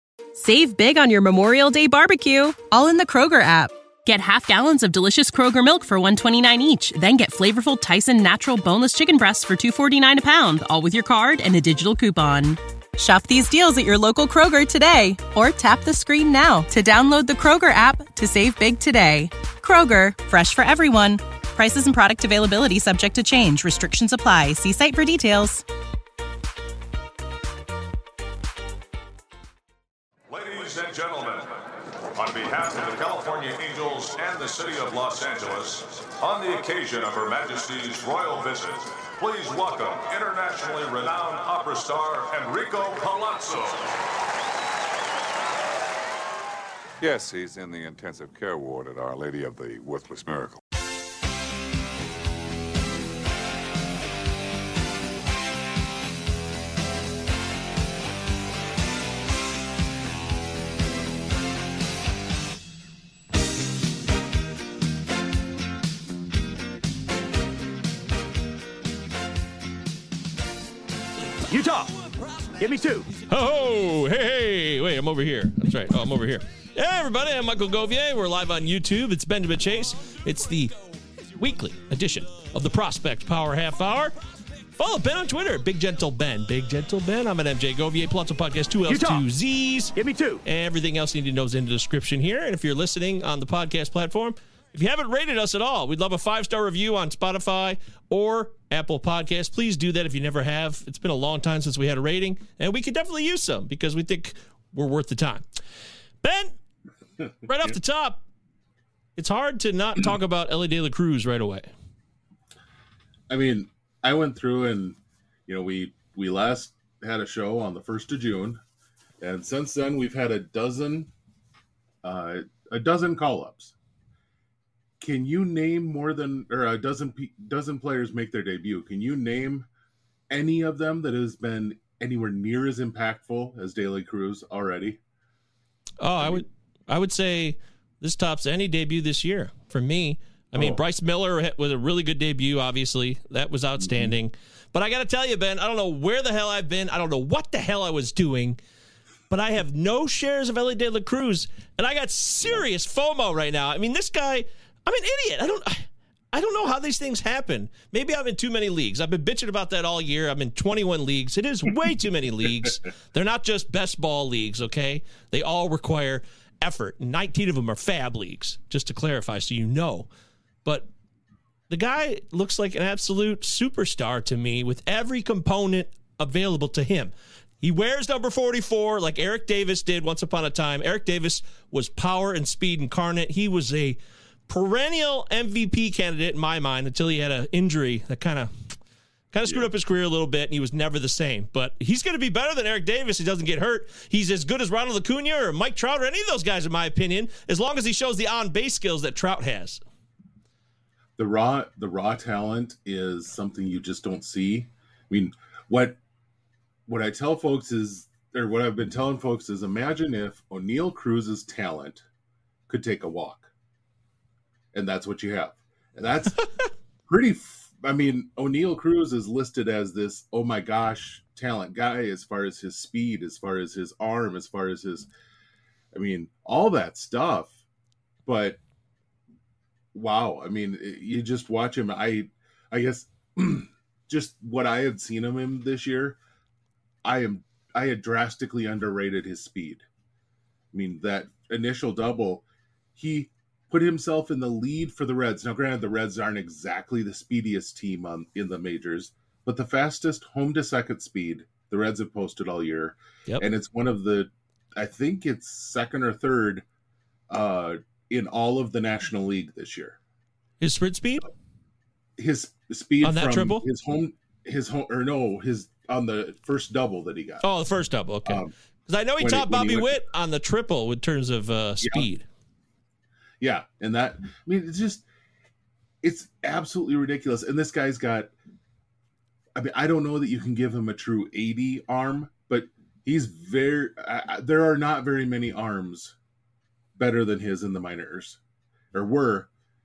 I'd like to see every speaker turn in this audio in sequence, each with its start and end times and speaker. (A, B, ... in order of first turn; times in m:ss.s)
0:00.4-0:25.6 A
0:30.3-0:31.6 B
0:32.2-0:43.8 B
0:47.0-0:50.6 C
1:11.5-1:11.9 D
1:11.6-1:24.2 E
1:12.6-1:13.1 D
1:24.8-1:29.9 E
1:28.9-1:29.2 D
1:30.0-1:30.4 D
1:30.4-1:45.4 E
1:46.2-1:46.5 E
1:47.5-1:48.2 E
1:49.2-1:51.7 E
1:53.3-1:58.6 F
1:59.2-2:01.1 F
2:02.0-2:03.7 F
2:05.0-2:09.7 F
2:10.3-2:15.0 F
2:16.0-2:28.6 E
2:16.2-2:16.4 F
2:20.5-2:20.8 F
2:23.8-2:24.1 F
2:29.3-2:50.1 E
2:51.7-3:08.5 E
3:09.3-3:19.8 E
3:21.2-3:26.0 F
3:26.9-3:32.0 F
3:32.7-3:33.5 F
3:34.7-3:36.5 F
3:37.1-3:45.1 F
3:45.9-3:47.6 F
3:48.2-3:48.6 F
3:49.9-3:56.2 F
3:57.0-3:59.8 F
4:00.7-4:02.4 F
4:03.0-4:16.6 F
4:17.3-4:20.0 F
4:20.6-4:21.3 E
4:22.2-4:27.4 F
4:23.0-4:23.6 E
4:27.4-4:32.2 E
4:28.2-4:28.5 F
4:29.2-4:29.9 F
4:31.8-4:32.1 F
4:33.4-4:35.0 F
4:36.0-4:38.3 F
4:39.6-4:46.2 F
4:47.0-4:48.4 F
4:48.9-4:49.5 F